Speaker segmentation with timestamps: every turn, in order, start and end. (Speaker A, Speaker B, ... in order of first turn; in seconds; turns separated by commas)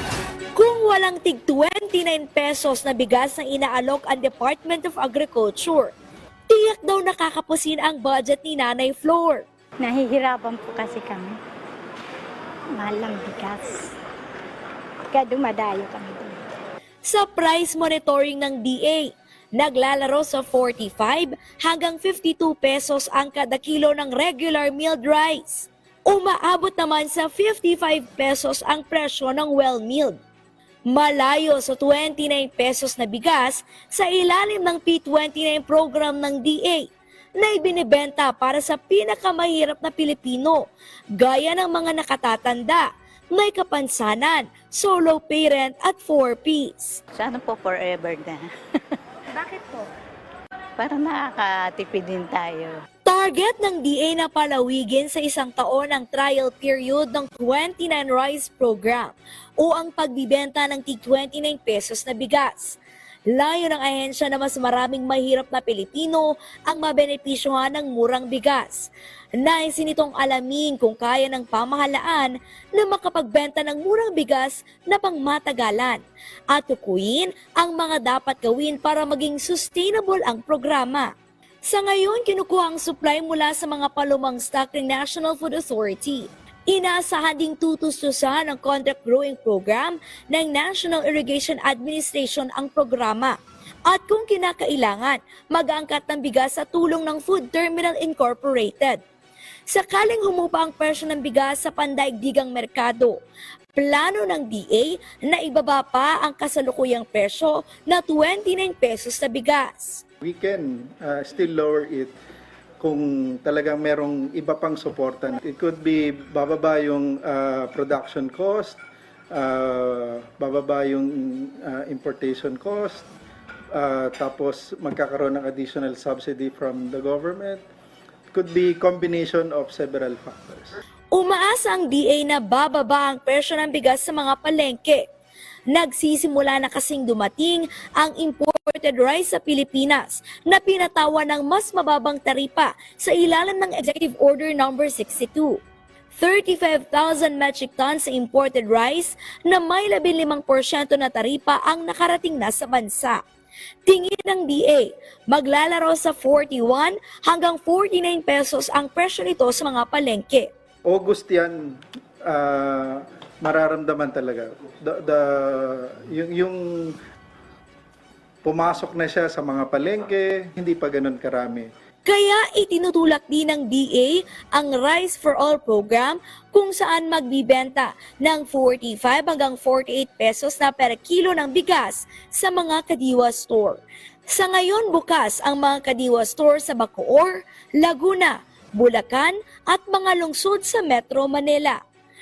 Speaker A: 0.6-5.9, Speaker A: 6.5-9.4, Speaker B: 9.8-11.4, Speaker B: 12.8-13.9, Speaker B: 15.1-16.4, Speaker A: 17.1-30.2, Speaker A: 30.9-36.9, Speaker A: 37.4-40.6, Speaker A: 41.2-47.0, Speaker C: 47.2-48.5, Speaker C: 50.8-52.8, Speaker A: 53.0-62.8, Speaker A: 63.3-68.9, Speaker A: 69.4-76.0, Speaker A: 76.5-81.1, Speaker A: 81.6-93.3, Speaker A: 93.9-99.0, Speaker A: 99.7-103.2, Speaker A: 103.8-110.0, Speaker D: 110.2-112.1, Speaker D: 112.8-118.8, Speaker D: 119.3-123.1, Speaker D: 123.8-127.6, Speaker D: 128.3-130.8, Speaker A: 131.1-135.0, Speaker A: 135.7-145.6, Speaker A: 146.1-153.2, Speaker A: 153.9-160.5, Speaker D: 160.9-166.9, Speaker D: 168.4-171.7, Speaker A: 172.1-191.8